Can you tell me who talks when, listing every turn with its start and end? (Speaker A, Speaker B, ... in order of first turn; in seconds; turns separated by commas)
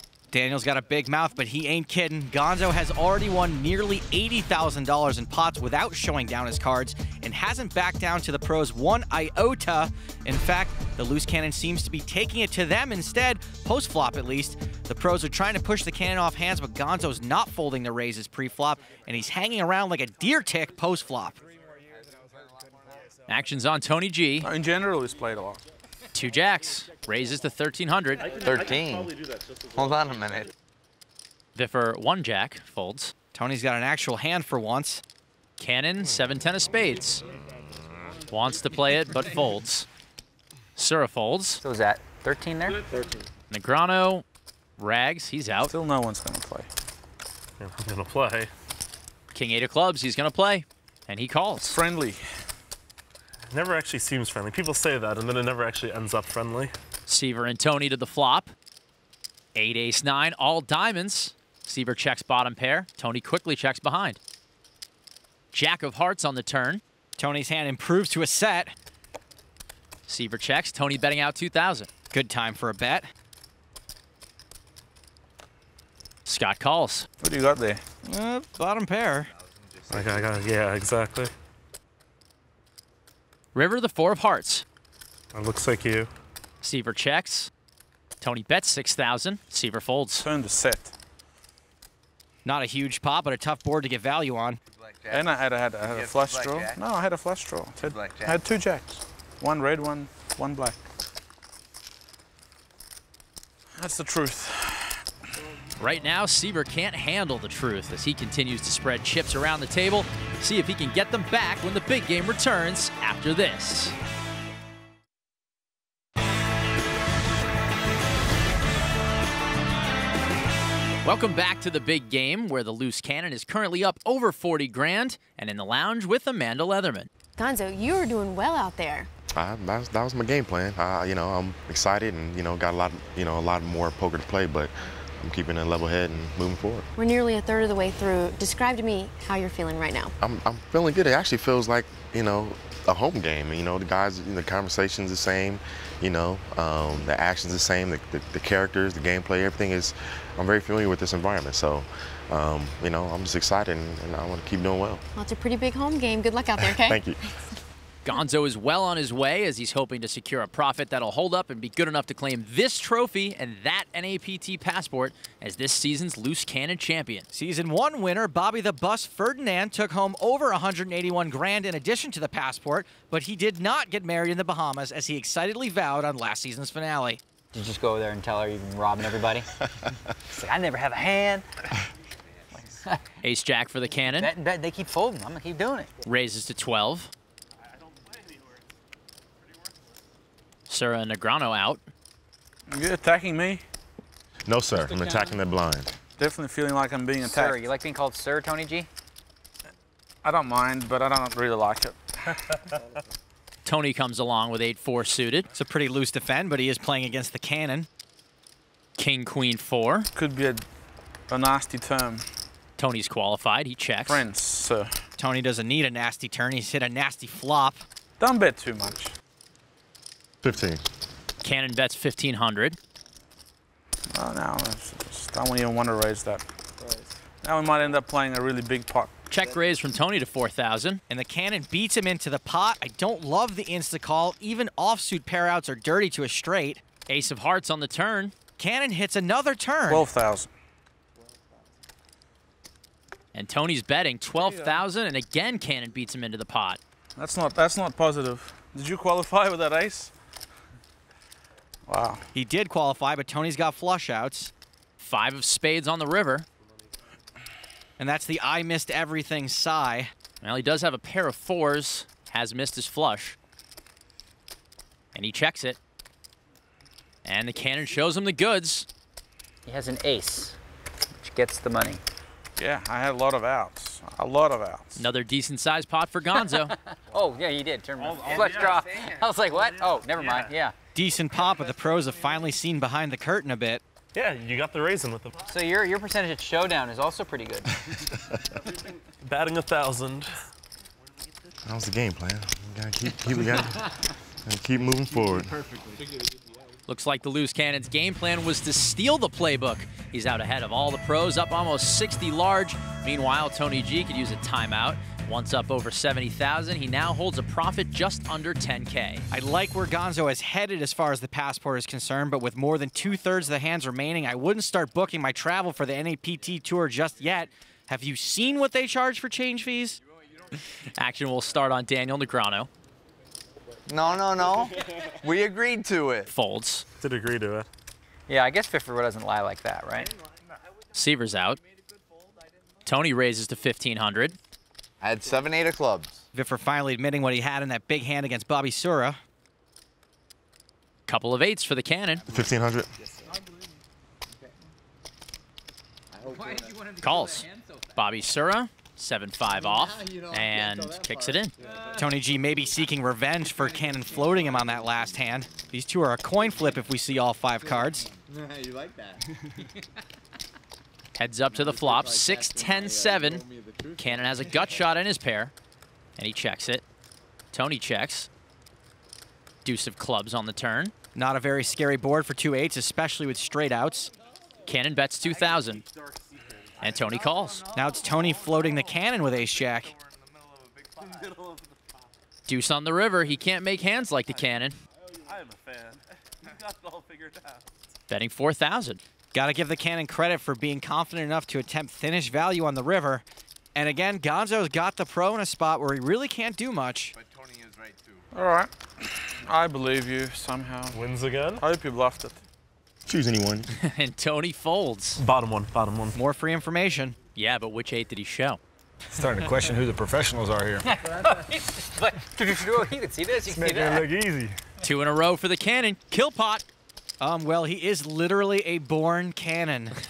Speaker A: 0.3-21.4, Speaker B: 23.3-24.5, Speaker C: 24.4-25.6, Speaker B: 26.1-28.3, Speaker D: 28.4-29.1, Speaker D: 29.7-30.5, Speaker B: 31.5-33.1, Speaker A: 33.3-35.0, Speaker B: 35.6-37.2, Speaker B: 38.3-39.9, Speaker B: 40.8-41.6, Speaker E: 41.6-42.9, Speaker B: 43.5-44.2, Speaker B: 44.8-45.7, Speaker C: 45.6-46.7, Speaker F: 47.6-48.5, Speaker B: 49.3-51.8, Speaker C: 51.6-52.2, Speaker F: 53.5-56.7, Speaker B: 57.1-58.5, Speaker B: 59.5-64.2, Speaker B: 65.5-66.8, Speaker A: 67.2-68.7, Speaker B: 70.1-71.9, Speaker A: 72.1-73.1, Speaker B: 76.2-77.1, Speaker C: 77.2-77.8, Speaker A: 78.0-79.3, Speaker F: 79.9-81.3, Speaker B: 83.5-84.6, Speaker F: 85.3-86.1, Speaker B: 86.6-87.5, Speaker B: 88.2-90.2, Speaker C: 90.2-90.9, Speaker A: 92.4-94.6, Speaker D: 94.7-96.8, Speaker C: 95.1-100.8, Speaker D: 97.8-98.4, Speaker C: 103.8-105.0, Speaker B: 105.8-113.9, Speaker B: 121.0-127.1, Speaker G: 127.4-129.1, Speaker H: 129.3-136.9, Speaker G: 136.9-140.1, Speaker H: 140.2-155.0, Speaker G: 155.1-157.0, Speaker H: 156.6-157.2, Speaker B: 158.0-167.2, Speaker A: 167.3-177.2, Speaker E: 177.5-179.5, Speaker E: 180.3-181.7, Speaker E: 182.7-183.0, Speaker B: 183.2-184.3, Speaker E: 184.2-185.9, Speaker B: 186.1-187.1, Speaker B: 190.7-191.8, Speaker C: 192.7-193.6, Speaker H: 194.4-195.9, Speaker C: 196.2-197.6, Speaker E: 197.2-198.9, Speaker C: 200.2-202.6, Speaker B: 203.6-205.5, Speaker A: 205.6-207.9, Speaker B: 209.0-210.1, Speaker C: 210.1-210.6, Speaker C: 211.3-212.2, Speaker B: 212.8-214.2, Speaker C: 214.1-214.9, Speaker A: 215.2-217.8, Speaker C: 218.2-219.1, Speaker H: 220.4-220.8, Speaker B: 221.4-222.8, Speaker C: 224.1-226.4, Speaker C: 227.4-229.1, Speaker B: 229.3-231.0, Speaker A: 231.1-236.8, Speaker B: 237.1-238.3, Speaker A: 238.6-240.1, Speaker C: 239.9-240.5, Speaker B: 243.3-246.8, Speaker C: 247.2-250.1, Speaker C: 251.8-252.3, Speaker A: 252.3-254.5, Speaker B: 255.0-256.4, Speaker A: 258.0-260.1, Speaker B: 260.4-263.4, Speaker B: 265.1-265.8, Speaker B: 267.2-268.9, Speaker E: 269.6-270.6, Speaker E: 271.2-272.0, Speaker C: 272.6-275.0, Speaker B: 274.9-276.7, Speaker E: 276.7-280.7, Speaker A: 280.9-283.8, Speaker F: 284.1-285.3, Speaker E: 285.5-287.7, Speaker F: 289.2-290.3, Speaker H: 291.6-293.9, Speaker H: 294.4-295.6, Speaker B: 296.9-309.2, Speaker A: 309.3-320.0, Speaker B: 321.0-322.7, Speaker D: 323.9-326.3, Speaker B: 326.3-326.8, Speaker F: 327.0-327.7, Speaker E: 328.3-330.1, Speaker B: 330.9-331.6, Speaker B: 332.9-334.4, Speaker D: 335.0-336.2, Speaker A: 336.3-339.2, Speaker B: 341.1-342.2, Speaker H: 342.3-342.9, Speaker B: 347.0-351.5, Speaker A: 351.9-358.1, Speaker B: 361.1-363.4, Speaker B: 363.9-365.5, Speaker B: 366.2-366.8, Speaker B: 367.5-368.3, Speaker B: 369.6-370.9, Speaker A: 371.1-374.1, Speaker B: 374.6-375.8, Speaker B: 376.8-377.7, Speaker A: 377.7-379.9, Speaker F: 381.1-381.6, Speaker B: 382.5-384.8, Speaker F: 385.2-386.0, Speaker F: 386.6-387.6, Speaker B: 388.1-389.0, Speaker A: 389.3-393.2, Speaker A: 393.7-397.1, Speaker D: 397.2-398.2, Speaker C: 398.3-401.0, Speaker F: 400.9-401.6, Speaker C: 401.6-402.4, Speaker H: 403.1-403.7, Speaker B: 403.7-405.2, Speaker F: 405.2-406.1, Speaker A: 406.1-407.2, Speaker B: 407.4-408.6, Speaker I: 409.1-410.9, Speaker E: 410.9-414.1, Speaker I: 413.4-414.6, Speaker B: 414.8-416.6, Speaker A: 417.2-420.0